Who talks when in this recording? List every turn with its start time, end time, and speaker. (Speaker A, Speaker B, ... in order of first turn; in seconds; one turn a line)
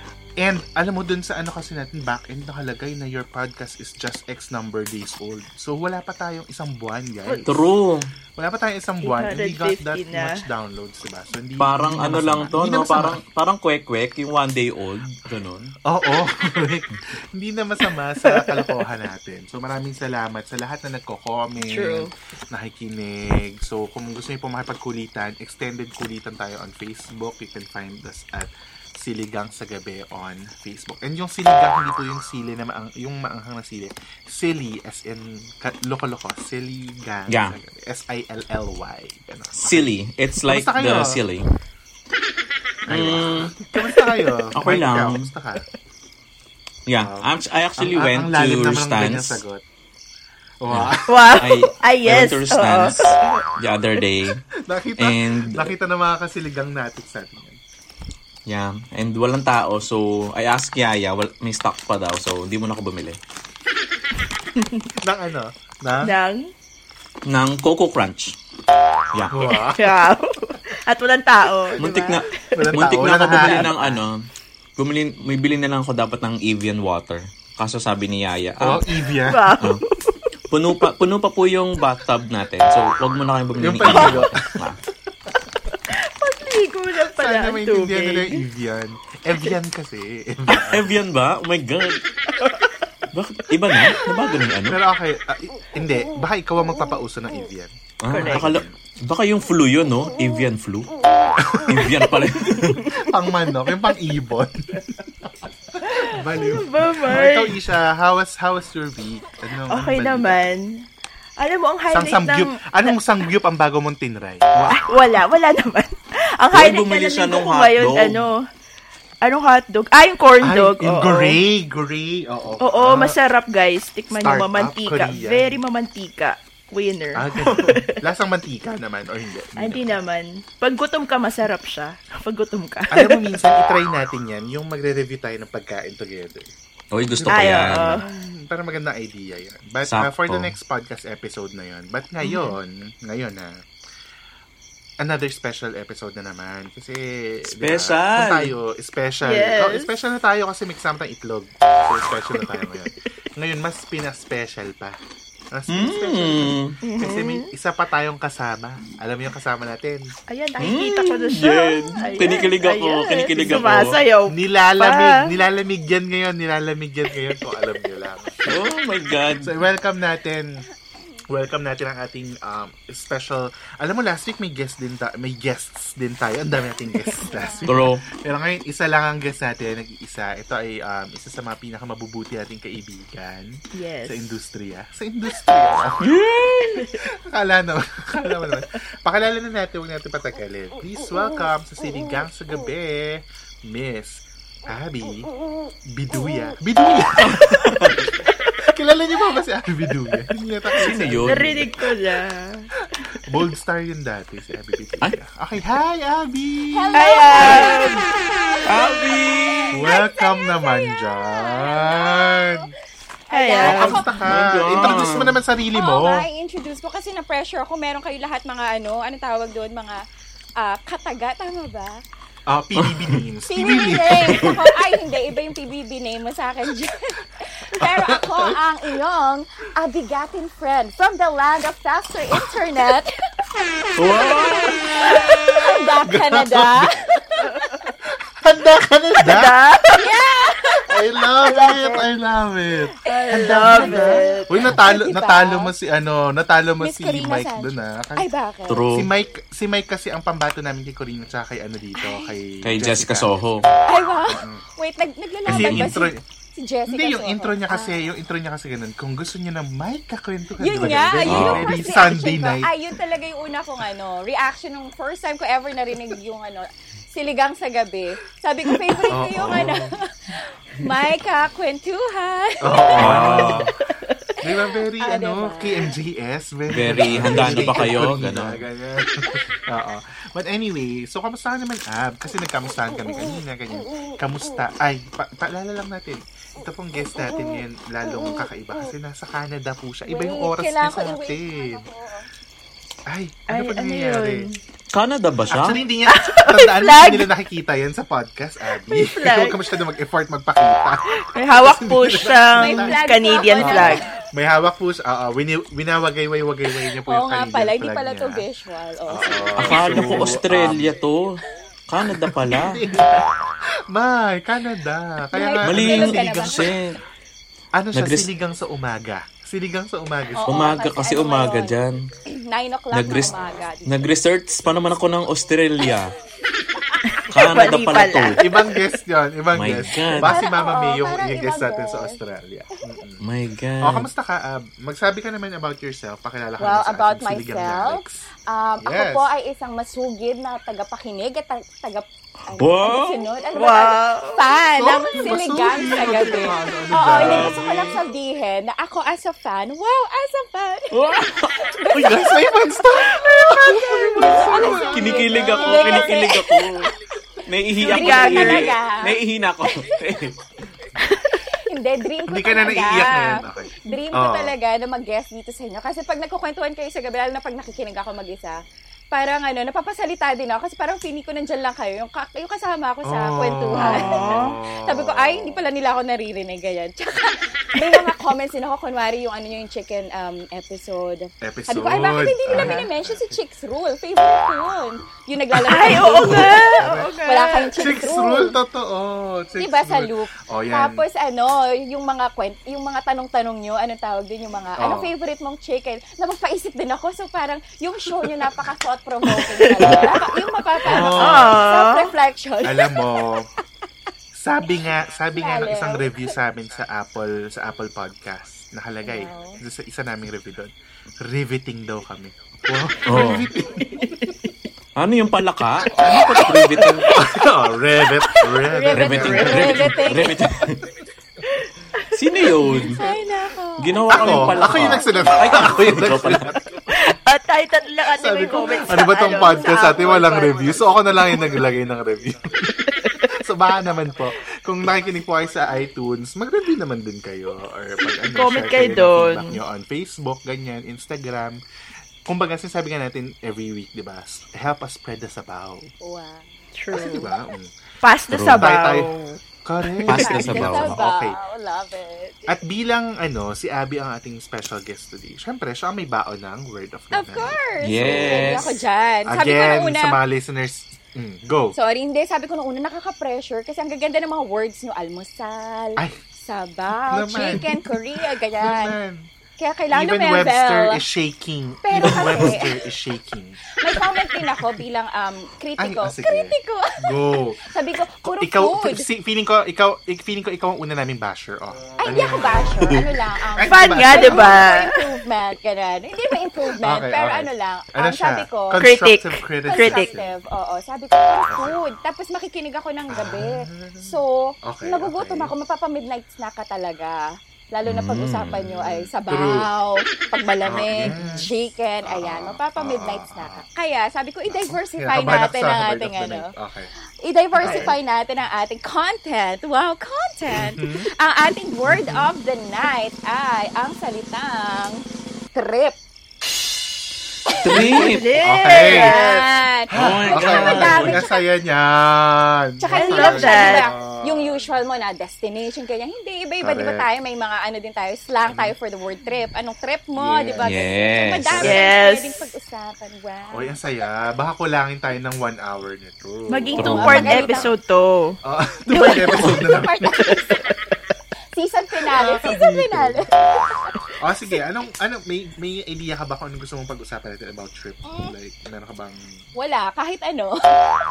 Speaker A: 0.4-7.6
Speaker B: 7.5-8.1
Speaker A: 8.4-13.2
Speaker C: 9.0-10.4
Speaker B: 11.6-15.7
Speaker A: 15.8-41.2
Speaker C: 18.2-18.6
Speaker C: 21.6-22.1
Speaker B: 37.3-37.5
Speaker B: 39.5-41.5
Speaker A: 42.8-45.6
Speaker B: 42.9-43.5
Speaker B: 44.5-45.3
Speaker B: 46.9-49.4
Speaker A: 47.0-49.6
Speaker A: 50.6-51.4
Speaker B: 50.7-54.4
Speaker C: 51.1-53.5
Speaker A: 54.6-57.6
Speaker B: 55.0-55.7
Speaker B: 58.5-63.2
Speaker C: 64.6-64.9
Speaker A: 65.0-66.2
Speaker C: 66.0-66.5
Speaker B: 67.3-68.3
Speaker A: 69.3-70.0
Speaker C: 69.7-72.7
Speaker B: 71.8-74.2
Speaker A: 72.5-74.0
Speaker C: 73.3-73.7
Speaker B: 74.8-78.8
Speaker A: 78.6-79.5
Speaker C: 79.3-79.8
Speaker B: 80.5-84.8
Speaker A: 83.6-84.4
Speaker C: 83.8-84.3
Speaker C: 85.9-88.4
Speaker A: 87.0-90.9
Speaker B: 90.5-92.0
Speaker B: 93.1-94.8
Speaker A: 94.7-98.7
Speaker B: 98.0-100.9
Speaker C: 98.1-98.5
Speaker A: 101.4-101.8
Speaker B: 101.7-102.9
Speaker C: 102.6-102.9
Speaker A: 103.0-110.5
Speaker C: 105.9-107.6
Speaker C: 109.7-110.8
Speaker C: 111.4-112.9
Speaker A: 111.9-114.9
Speaker C: 114.7-118.4
Speaker B: 116.5-118.3
Speaker C: 119.2-121.4
Speaker A: 120.4-123.1
Speaker C: 122.6-128.0
Speaker A: 124.1-125.6
Speaker A: 127.1-130.0
Speaker C: 129.6-133.3
Speaker A: 132.9-136.5
Speaker B: 136.9-138.0
Speaker A: 137.1-143.5
Speaker C: 137.3-138.0
Speaker B: 139.9-140.5
Speaker C: 142.2-142.5
Speaker A: 145.0-155.0
Speaker B: 147.6-148.5
Speaker C: 149.2-149.9
Speaker A: 155.5-160.2
Speaker B: 155.7-156.7
Speaker C: 156.8-157.5
Speaker C: 160.3-165.2
Speaker B: 160.6-163.9
Speaker A: 163.4-163.7
Speaker A: 164.3-168.6
Speaker B: 168.5-169.5
Speaker A: 169.4-170.6
Speaker A: 171.3-186.1
Speaker C: 177.0-177.3
Speaker D: 177.2-177.7
Speaker B: 177.7-178.0
Speaker C: 183.8-184.3
Speaker B: 186.0-186.9
Speaker A: 187.1-195.3
Speaker A: 195.9-198.0
Speaker B: 197.2-198.0
Speaker A: 198.6-201.8
Speaker B: 200.8-201.7
Speaker C: 201.2-202.7
Speaker A: 202.9-207.7
Speaker D: 206.7-207.9
Speaker C: 206.9-208.0
Speaker B: 208.7-209.8
Speaker D: 209.5-212.6
Speaker A: 209.7-212.7
Speaker D: 213.3-214.2
Speaker C: 213.3-213.9
Speaker A: 213.6-216.2
Speaker B: 214.3-215.3
Speaker D: 214.7-215.1
Speaker D: 215.7-220.0
Speaker D: 220.6-222.0
Speaker A: 222.5-224.6
Speaker B: 222.8-223.2
Speaker D: 223.5-227.2
Speaker D: 227.7-233.1
Speaker A: 227.8-228.6
Speaker B: 234.0-235.8
Speaker D: 234.9-236.9
Speaker A: 235.9-237.5
Speaker A: 238.4-239.5
Speaker C: 239.2-240.0
Speaker D: 239.9-240.9
Speaker A: 240.9-248.3
Speaker D: 241.4-241.9
Speaker C: 243.1-244.7
Speaker D: 243.4-245.7
Speaker D: 246.8-248.8
Speaker B: 248.7-249.1
Speaker A: 248.9-253.3
Speaker D: 252.0-252.3
Speaker B: 252.6-253.6
Speaker D: 253.8-258.0
Speaker A: 254.3-254.6
Speaker A: 255.4-256.2
Speaker B: 255.5-255.9
Speaker A: 256.9-262.7
Speaker D: 260.6-269.9
Speaker B: 261.2-261.7
Speaker A: 269.1-269.9
Speaker D: 270.8-273.2
Speaker A: 272.6-273.7
Speaker B: 273.0-273.7
Speaker A: 274.4-291.8
Speaker D: 275.0-275.9
Speaker B: 276.7-278.6
Speaker D: 277.3-277.8
Speaker D: 290.1-292.2
Speaker A: 293.1-294.5
Speaker C: 293.5-294.6
Speaker B: 294.9-295.8
Speaker A: 295.5-308.4
Speaker C: 296.1-297.3
Speaker C: 298.8-299.6
Speaker C: 301.3-304.0
Speaker D: 302.6-304.0
Speaker D: 307.1-310.3
Speaker A: 309.1-311.0
Speaker B: 309.6-312.8
Speaker A: 312.5-313.3
Speaker C: 312.9-313.2
Speaker A: 313.9-316.8
Speaker D: 315.3-316.7
Speaker B: 315.6-317.0
Speaker A: 317.7-320.8
Speaker B: 317.9-318.3
Speaker D: 320.3-321.8
Speaker B: 320.5-322.0
Speaker D: 322.3-324.1
Speaker B: 322.9-323.3
Speaker B: 323.9-326.1
Speaker C: 327.1-328.9
Speaker B: 327.3-328.5
Speaker A: 328.4-333.2
Speaker B: 329.5-330.4
Speaker D: 330.2-332.2
Speaker B: 333.2-334.1
Speaker A: 333.8-338.3
Speaker D: 336.6-350.9
Speaker A: 338.8-339.3
Speaker B: 342.6-343.3
Speaker C: 343.5-344.5
Speaker A: 344.8-347.6
Speaker B: 347.1-348.0
Speaker B: 350.9-351.7
Speaker D: 351.6-352.4
Speaker A: 351.9-356.1
Speaker D: 353.1-356.6
Speaker C: 353.6-354.5
Speaker B: 354.9-356.9
Speaker B: 357.4-360.4
Speaker C: 357.8-358.7
Speaker D: 357.9-359.2
Speaker C: 361.1-361.4
Speaker D: 361.7-368.6
Speaker A: 362.3-364.5
Speaker D: 369.1-374.3
Speaker A: 373.0-375.6
Speaker C: 373.8-374.5
Speaker D: 374.9-388.5
Speaker A: 381.4-383.4
Speaker C: 382.5-382.8
Speaker C: 385.5-387.9
Speaker A: 385.8-387.1
Speaker A: 387.8-391.0
Speaker D: 389.6-403.1
Speaker A: 394.8-395.1
Speaker C: 399.3-400.2
Speaker A: 400.8-401.6
Speaker C: 400.9-402.1
Speaker A: 402.6-403.4
Speaker A: 404.3-414.1
Speaker D: 405.3-406.3
Speaker D: 409.0-409.6
Speaker B: 413.1-413.5
Speaker B: 415.0-417.1
Speaker A: 416.0-420.1
Speaker D: 418.6-420.4
Speaker B: 418.9-420.9
Speaker B: 422.1-423.0
Speaker A: 422.6-423.2
Speaker D: 422.8-425.4
Speaker B: 423.8-426.5
Speaker A: 424.1-426.6
Speaker C: 426.9-431.6
Speaker A: 428.1-441.6
Speaker C: 433.0-433.3
Speaker C: 438.3-439.6
Speaker A: 442.3-445.9
Speaker D: 446.0-446.5
Speaker C: 446.7-447.3
Speaker A: 446.9-447.7
Speaker C: 448.0-449.4
Speaker B: 448.3-448.6
Speaker A: 448.3-449.1
Speaker A: 449.6-451.4
Speaker B: 450.1-451.0
Speaker D: 450.1-452.5
Speaker A: 452.5-458.7
Speaker D: 457.1-460.2
Speaker B: 457.8-458.7
Speaker A: 459.3-461.7
Speaker D: 461.7-468.9
Speaker A: 467.1-469.3
Speaker D: 469.6-471.0
Speaker A: 469.9-473.6
Speaker D: 471.8-472.8
Speaker D: 473.8-479.1
Speaker A: 475.8-477.6
Speaker A: 478.2-483.0
Speaker D: 482.0-488.8
Speaker A: 483.6-484.8
Speaker C: 483.7-485.0
Speaker A: 486.8-490.3
Speaker C: 488.8-490.0
Speaker D: 489.7-497.2
Speaker A: 491.5-491.7
Speaker A: 493.1-495.5
Speaker D: 497.7-506.5
Speaker B: 497.9-498.6
Speaker A: 498.5-499.7
Speaker A: 500.6-501.5
Speaker A: 502.0-503.6
Speaker A: 504.5-506.9
Speaker D: 507.2-515.0
Speaker A: 507.6-507.9
Speaker C: 507.6-507.9
Speaker A: 510.5-511.1
Speaker A: 511.9-512.2
Speaker D: 515.5-516.0
Speaker B: 517.6-518.3
Speaker C: 517.7-519.5
Speaker A: 518.4-519.2
Speaker D: 518.7-521.5
Speaker A: 519.9-524.7
Speaker B: 519.9-521.2
Speaker D: 522.8-533.7
Speaker C: 522.9-523.8
Speaker A: 526.6-527.0
Speaker A: 528.5-528.7
Speaker A: 530.1-530.8
Speaker B: 530.6-531.6
Speaker A: 531.4-531.8
Speaker C: 531.6-532.3
Speaker A: 533.5-537.7
Speaker C: 536.5-538.4
Speaker B: 536.8-537.2
Speaker D: 536.8-537.7
Speaker A: 538.4-540.4
Speaker C: 538.9-539.4
Speaker D: 539.0-540.4
Speaker C: 540.3-540.7
Speaker D: 541.5-543.9
Speaker A: 542.1-543.2
Speaker A: 544.2-549.3
Speaker D: 548.0-548.3
Speaker D: 549.5-550.5